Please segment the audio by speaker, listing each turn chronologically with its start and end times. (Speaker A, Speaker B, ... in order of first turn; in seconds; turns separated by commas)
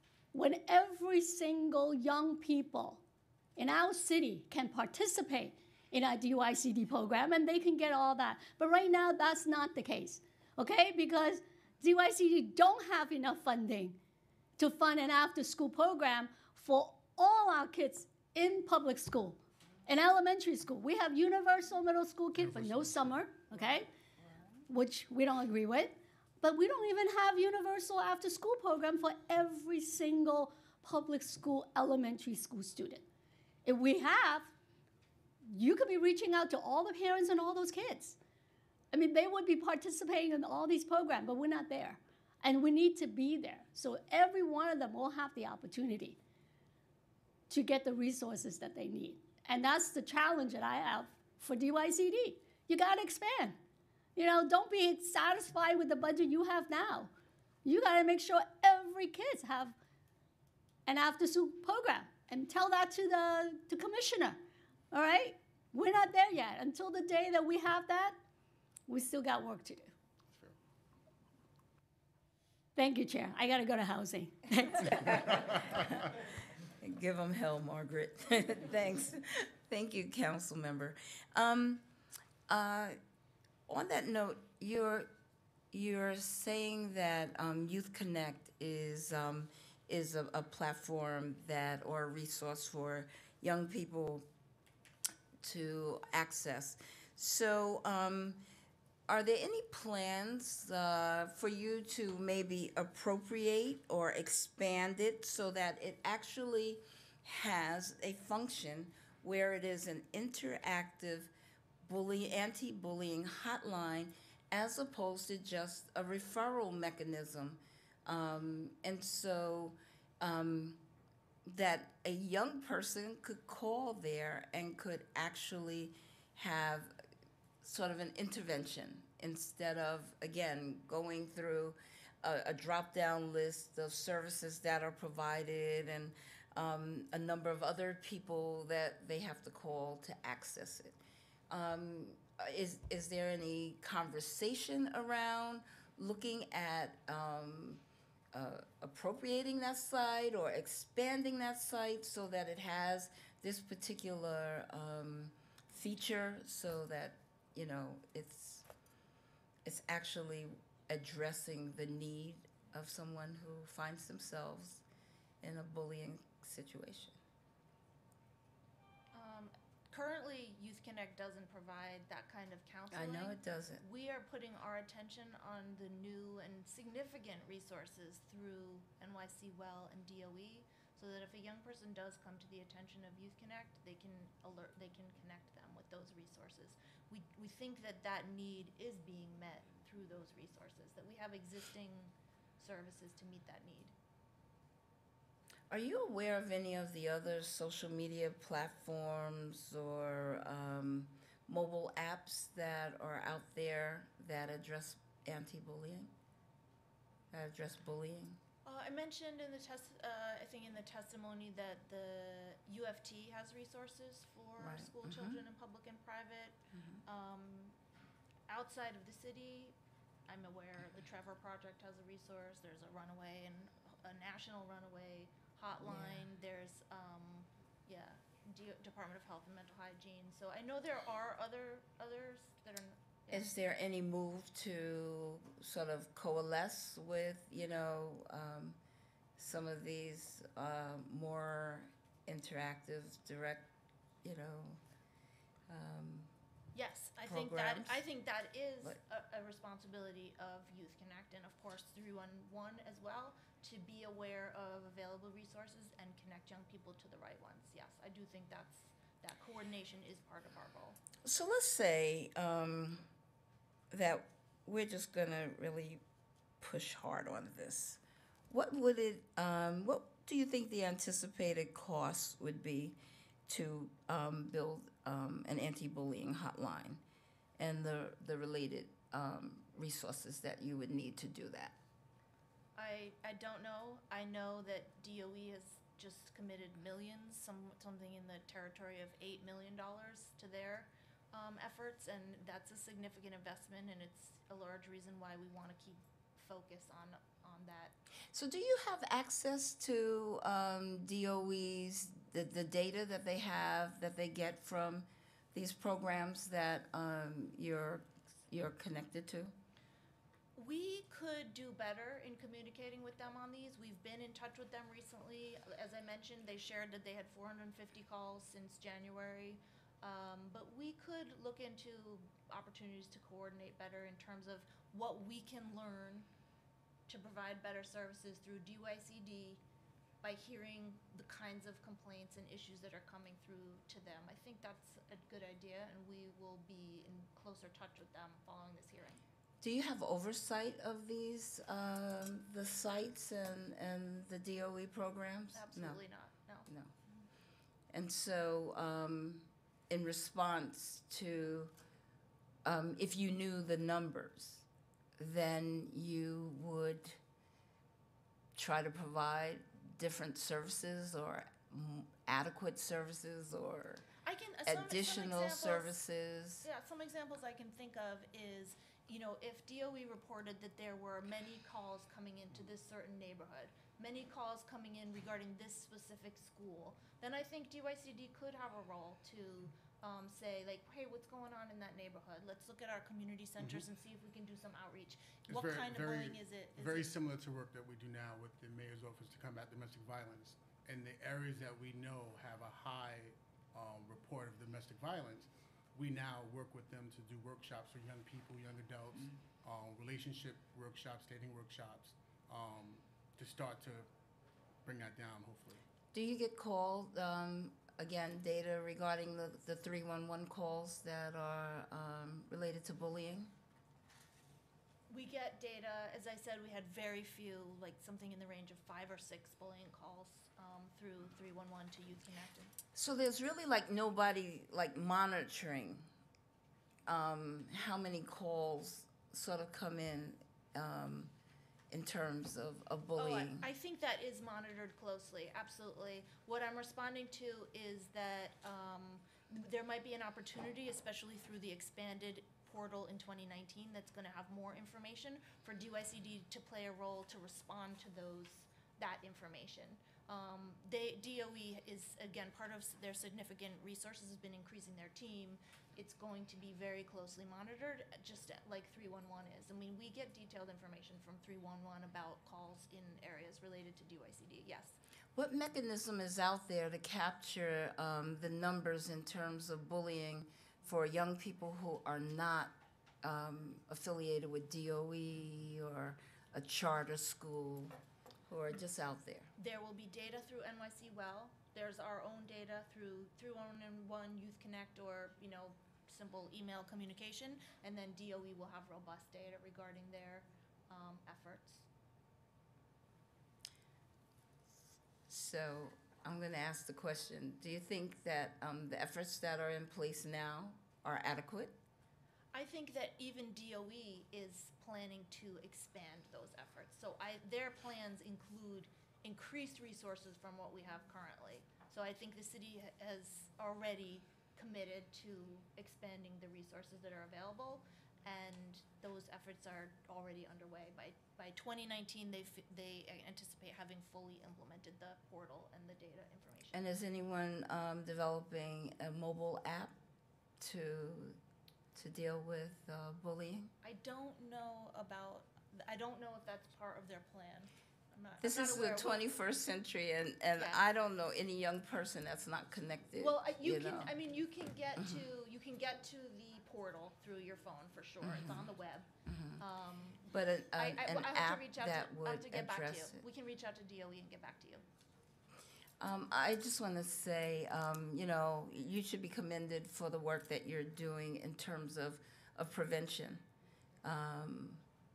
Speaker A: 0.3-3.0, Speaker A: 3.6-14.0, Speaker A: 14.6-23.9, Speaker B: 22.4-23.1, Speaker A: 24.7-33.0, Speaker A: 33.6-34.5, Speaker A: 35.5-38.2, Speaker A: 38.9-46.2, Speaker A: 47.5-53.6, Speaker A: 54.2-57.1, Speaker A: 57.6-59.8, Speaker A: 60.9-64.4, Speaker A: 64.9-68.2, Speaker A: 68.9-69.9, Speaker A: 72.8-74.6, Speaker C: 74.5-76.2, Speaker C: 76.8-81.8, Speaker C: 82.5-83.0, Speaker C: 83.7-85.1, Speaker C: 85.7-94.2, Speaker C: 95.4-98.4, Speaker C: 99.1-111.3, Speaker C: 111.8-120.8, Speaker C: 121.5-127.0, Speaker C: 127.6-141.0, Speaker C: 141.5-158.7, Speaker C: 159.7-164.8, Speaker C: 165.4-167.2, Speaker D: 169.1-193.9, Speaker C: 172.9-173.8, Speaker C: 195.7-206.1, Speaker C: 207.3-208.4, Speaker D: 208.7-217.8, Speaker C: 214.6-215.4, Speaker C: 216.7-217.0, Speaker D: 218.5-219.8, Speaker D: 220.3-233.5, Speaker C: 225.8-226.2, Speaker C: 233.3-238.8, Speaker C: 239.4-243.7, Speaker C: 244.2-244.8, Speaker C: 245.7-246.3, Speaker D: 246.7-261.0, Speaker C: 247.2-248.0, Speaker C: 261.2-263.1, Speaker C: 263.9-266.0, Speaker C: 266.6-277.0, Speaker C: 277.6-281.8, Speaker D: 282.8-298.0, Speaker C: 298.3-309.6, Speaker D: 310.6-326.3, Speaker D: 327.1-329.6, Speaker D: 330.2-339.2, Speaker C: 339.6-346.0, Speaker D: 345.5-346.7, Speaker C: 346.7-346.9, Speaker C: 347.9-351.7, Speaker C: 352.6-354.6, Speaker C: 355.2-357.2, Speaker C: 358.6-364.0, Speaker D: 364.2-366.0, Speaker C: 364.7-366.7, Speaker D: 366.6-387.1, Speaker B: 385.5-404.1, Speaker B: 404.9-405.8, Speaker C: 406.1-413.5, Speaker D: 415.1-422.7, Speaker C: 422.9-426.1, Speaker C: 427.1-431.3, Speaker C: 431.9-433.7, Speaker D: 433.2-465.0, Speaker C: 465.4-477.9, Speaker C: 478.5-479.5, Speaker D: 479.6-491.9, Speaker C: 495.3-501.8, Speaker D: 502.5-526.8, Speaker C: 526.7-530.0, Speaker C: 530.6-531.4, Speaker C: 532.0-533.7, Speaker D: 533.8-539.2, Speaker C: 538.4-544.1, Speaker D: 540.6-540.8, Speaker D: 543.2-554.8, Speaker C: 545.0-545.2, Speaker C: 548.2-548.7, Speaker C: 549.2-549.6, Speaker C: 550.3-553.2, Speaker C: 556.0-563.4, Speaker C: 564.0-564.8